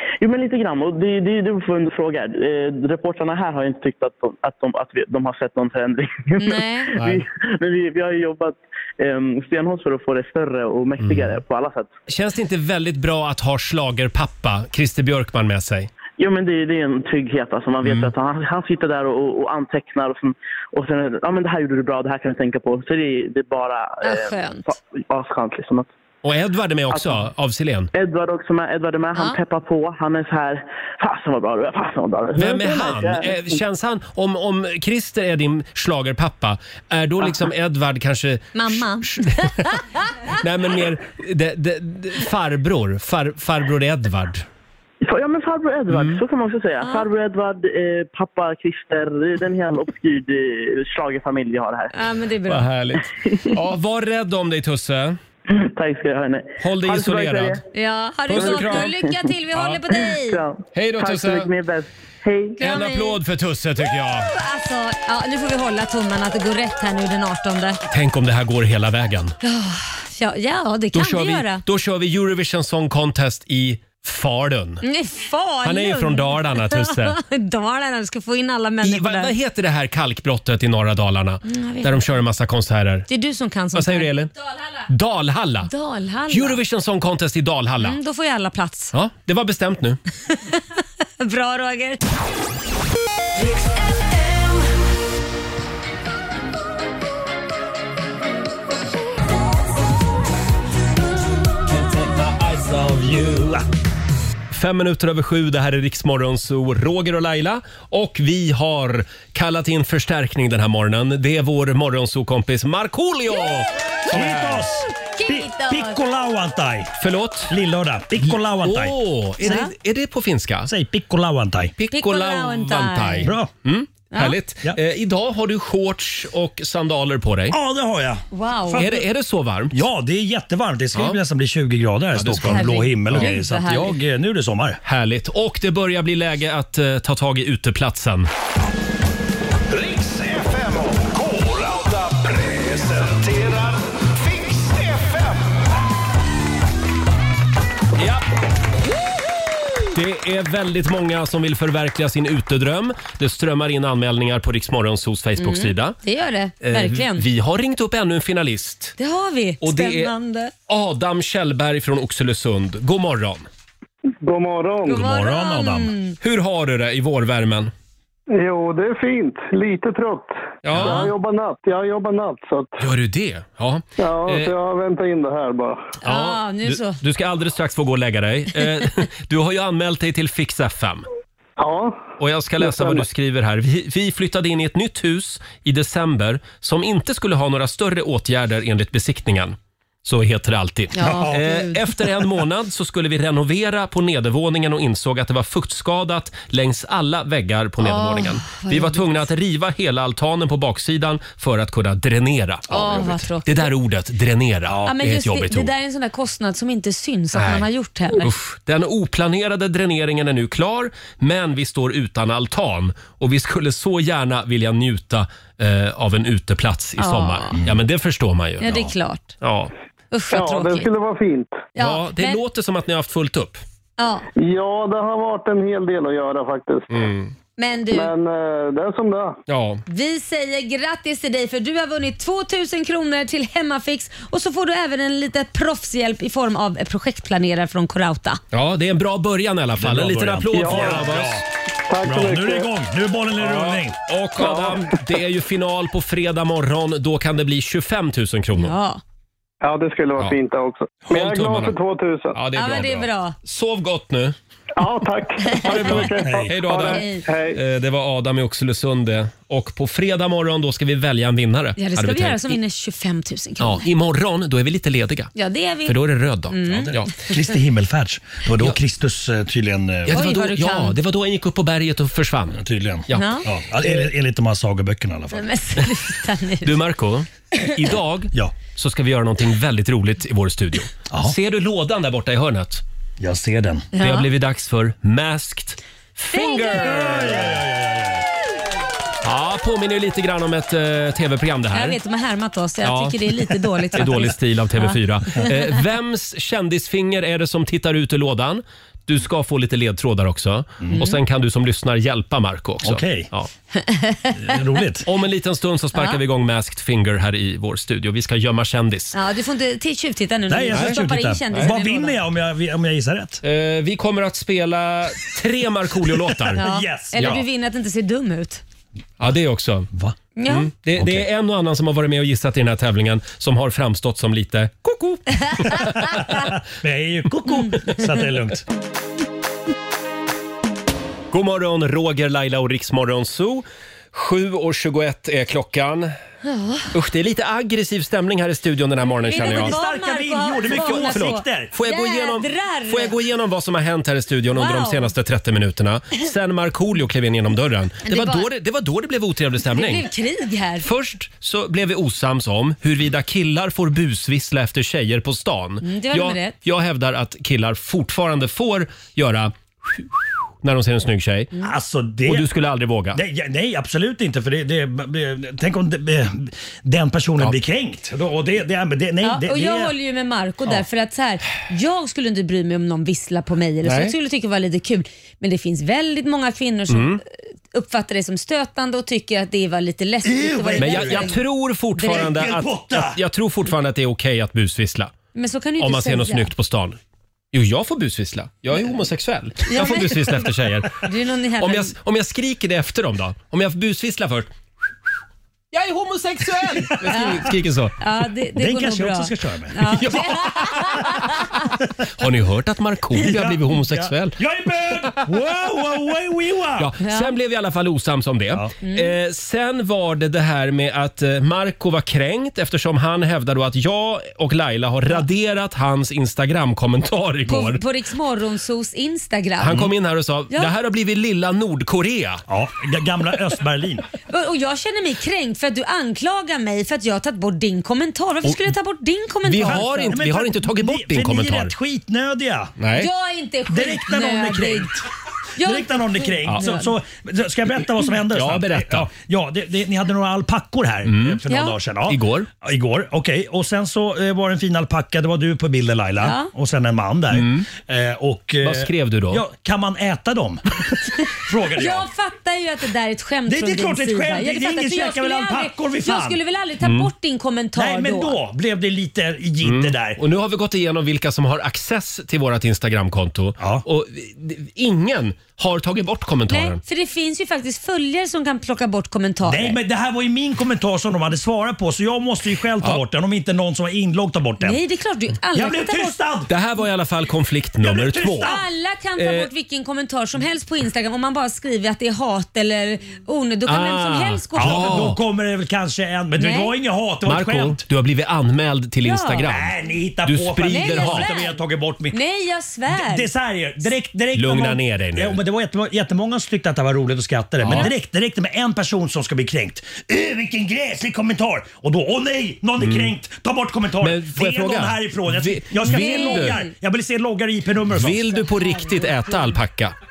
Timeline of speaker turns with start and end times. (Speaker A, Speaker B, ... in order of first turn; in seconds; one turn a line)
Speaker A: 0.2-11.9
Speaker B: 6.4-6.9
Speaker C: 7.0-7.2
Speaker C: 11.0-11.4
Speaker C: 12.1-15.9
Speaker A: 16.2-25.9
Speaker C: 17.8-18.1
Speaker B: 24.0-24.7
Speaker C: 26.2-27.9
Speaker A: 26.9-27.2
Speaker A: 27.9-33.6
Speaker C: 32.4-39.8
Speaker B: 38.5-40.0
Speaker C: 40.4-44.5
Speaker A: 45.0-51.9
Speaker C: 45.9-46.2
Speaker B: 46.8-47.1
Speaker B: 51.9-52.7
Speaker C: 52.5-55.2
Speaker A: 55.5-57.6
Speaker C: 56.6-57.6
Speaker B: 57.7-60.4
Speaker C: 58.3-58.9
Speaker A: 58.3-59.3
Speaker C: 59.5-59.8
Speaker A: 59.9-62.6
Speaker C: 60.7-61.5
Speaker B: 62.6-63.2
Speaker C: 62.6-64.3
Speaker B: 64.2-67.8
Speaker C: 67.9-69.3
Speaker B: 69.4-71.6
Speaker C: 70.9-74.8
Speaker B: 74.8-79.3
Speaker C: 75.7-77.2
Speaker C: 78.8-83.1
Speaker B: 81.4-82.0
Speaker B: 83.1-84.7
Speaker C: 83.7-84.3
Speaker C: 84.9-85.7
Speaker B: 85.7-86.6
Speaker C: 86.3-88.0
Speaker B: 87.8-88.9
Speaker C: 88.9-90.0
Speaker B: 91.2-92.0
Speaker D: 101.7-103.6
Speaker C: 104.5-114.7
Speaker D: 114.1-116.9
Speaker B: 115.0-116.0
Speaker C: 117.0-117.6
Speaker D: 117.5-119.0
Speaker C: 118.2-120.7
Speaker B: 119.4-119.7
Speaker D: 120.7-121.7
Speaker C: 121.8-127.6
Speaker B: 121.9-123.3
Speaker D: 123.2-123.5
Speaker B: 124.1-124.4
Speaker D: 127.5-129.1
Speaker B: 128.3-128.8
Speaker C: 128.7-129.8
Speaker D: 129.7-134.8
Speaker C: 132.2-133.3
Speaker B: 132.4-133.9
Speaker C: 134.8-138.3
Speaker E: 139.7-145.6
Speaker C: 148.0-148.2
Speaker C: 149.9-156.0
Speaker B: 155.4-157.2
Speaker C: 156.6-158.9
Speaker B: 159.0-160.5
Speaker C: 159.6-160.1
Speaker C: 160.7-163.5
Speaker F: 164.2-165.1
Speaker B: 164.9-166.2
Speaker D: 164.9-165.9
Speaker C: 166.2-167.7
Speaker F: 168.3-172.8
Speaker C: 170.6-171.1
Speaker B: 170.8-171.1
Speaker C: 172.8-174.5
Speaker F: 174.0-175.8
Speaker B: 176.0-177.0
Speaker C: 176.1-181.1
Speaker F: 181.6-183.1
Speaker C: 182.2-205.7
Speaker B: 190.9-191.8
Speaker D: 191.0-191.6
Speaker B: 197.8-199.2
Speaker B: 202.7-203.7
Speaker B: 204.8-208.3
Speaker C: 207.3-218.9
Speaker B: 217.0-217.6
Speaker B: 218.6-219.4
Speaker C: 219.4-219.7
Speaker B: 220.1-220.9
Speaker F: 220.3-221.7
Speaker B: 221.8-222.4
Speaker C: 221.8-223.6
Speaker B: 224.0-224.2
Speaker F: 224.4-227.0
Speaker C: 226.9-227.3
Speaker B: 227.6-228.1
Speaker F: 227.9-229.4
Speaker C: 229.5-229.8
Speaker B: 229.9-238.4
Speaker C: 238.5-241.4
Speaker D: 239.8-241.4
Speaker F: 240.5-241.1
Speaker F: 241.9-242.7
Speaker D: 242.0-244.0
Speaker C: 243.4-248.7
Speaker F: 244.4-244.9
Speaker B: 248.6-249.0
Speaker F: 249.6-252.4
Speaker C: 251.1-251.8
Speaker C: 252.3-254.3
Speaker B: 252.6-253.4
Speaker F: 254.8-257.6
Speaker B: 255.5-256.1
Speaker C: 255.6-262.6
Speaker D: 256.0-256.5
Speaker B: 256.9-257.2
Speaker B: 261.8-263.8
Speaker C: 263.6-265.3
Speaker B: 265.4-266.9
Speaker C: 265.9-267.1
Speaker D: 266.7-270.2
Speaker C: 270.1-273.3
Speaker B: 270.1-271.0
Speaker D: 272.5-275.5
Speaker B: 273.1-273.5
Speaker B: 275.3-276.7
Speaker C: 276.6-282.8
Speaker D: 283.2-283.9
Speaker B: 283.9-284.3
Speaker C: 284.0-287.6
Speaker B: 286.3-287.0
Speaker D: 286.8-288.3
Speaker C: 289.2-292.0
Speaker B: 291.7-295.5
Speaker C: 292.8-303.5
Speaker B: 300.9-301.2
Speaker D: 302.8-303.3
Speaker B: 303.8-304.5
Speaker D: 304.4-305.1
Speaker C: 305.0-309.1
Speaker B: 305.9-306.2
Speaker B: 309.1-312.2
Speaker D: 310.5-313.4
Speaker C: 310.7-311.0
Speaker C: 313.4-316.6
Speaker D: 316.5-317.4
Speaker B: 316.6-318.6
Speaker C: 317.2-317.4
Speaker C: 319.2-319.9
Speaker B: 320.4-320.7
Speaker C: 320.5-326.2
Speaker D: 321.0-321.3
Speaker D: 326.0-328.6
Speaker B: 327.5-327.8
Speaker C: 331.3-336.1
Speaker B: 336.5-336.9
Speaker C: 336.9-339.7
Speaker B: 339.2-343.1
Speaker D: 339.3-341.7
Speaker C: 340.7-350.1
Speaker B: 344.6-345.1
Speaker B: 348.1-348.5
Speaker B: 349.7-350.9
Speaker C: 350.8-361.5
Speaker B: 355.8-356.6
Speaker D: 361.6-362.5
Speaker C: 362.3-363.2
Speaker D: 363.1-369.9
Speaker B: 369.2-381.4
Speaker C: 373.8-374.1
Speaker C: 376.9-377.2
Speaker D: 380.2-381.4
Speaker C: 380.8-385.1
Speaker B: 382.0-382.4
Speaker D: 382.0-383.2
Speaker B: 385.3-386.5
Speaker C: 385.8-387.0
Speaker C: 387.5-391.0
Speaker B: 389.7-390.3
Speaker B: 391.0-391.9
Speaker C: 391.6-394.5
Speaker C: 395.7-398.0
Speaker D: 396.8-397.2
Speaker B: 397.1-401.3
Speaker D: 398.6-400.4
Speaker C: 400.0-401.1
Speaker C: 402.2-404.4
Speaker D: 403.1-406.9
Speaker C: 406.8-417.8
Speaker B: 407.0-407.3
Speaker B: 408.8-409.1
Speaker B: 417.5-419.9
Speaker C: 419.6-422.4
Speaker D: 422.5-424.1
Speaker B: 424.3-430.2
Speaker C: 429.4-431.7
Speaker D: 429.6-432.8
Speaker C: 432.8-433.1
Speaker B: 432.9-434.9
Speaker D: 433.7-435.0
Speaker B: 435.6-436.9
Speaker D: 435.6-450.8
Speaker C: 438.2-439.1
Speaker C: 441.1-441.4
Speaker B: 441.5-441.8
Speaker C: 442.1-442.5
Speaker B: 446.2-446.5
Speaker C: 447.3-447.7
Speaker C: 448.6-449.4
Speaker D: 451.3-452.1
Speaker B: 451.8-458.4
Speaker D: 453.5-456.4
Speaker C: 456.8-457.1
Speaker D: 457.8-460.2
Speaker C: 459.6-466.8
Speaker D: 463.6-463.9
Speaker B: 466.5-469.8
Speaker D: 469.4-474.8
Speaker B: 474.6-476.2
Speaker D: 475.5-476.5
Speaker C: 476.5-478.5
Speaker D: 477.8-478.6
Speaker B: 478.4-485.1
Speaker C: 479.2-479.5
Speaker C: 483.7-485.2
Speaker D: 484.6-487.8
Speaker B: 486.4-486.7
Speaker C: 487.2-491.4
Speaker B: 489.0-489.5
Speaker D: 489.4-492.2
Speaker B: 490.7-491.6
Speaker B: 492.1-493.3
Speaker D: 492.9-508.4
Speaker C: 494.3-495.4
Speaker C: 497.6-497.9
Speaker C: 502.8-503.1
Speaker C: 504.0-506.6
Speaker B: 505.8-506.7
Speaker C: 507.9-509.9
Speaker B: 508.3-509.5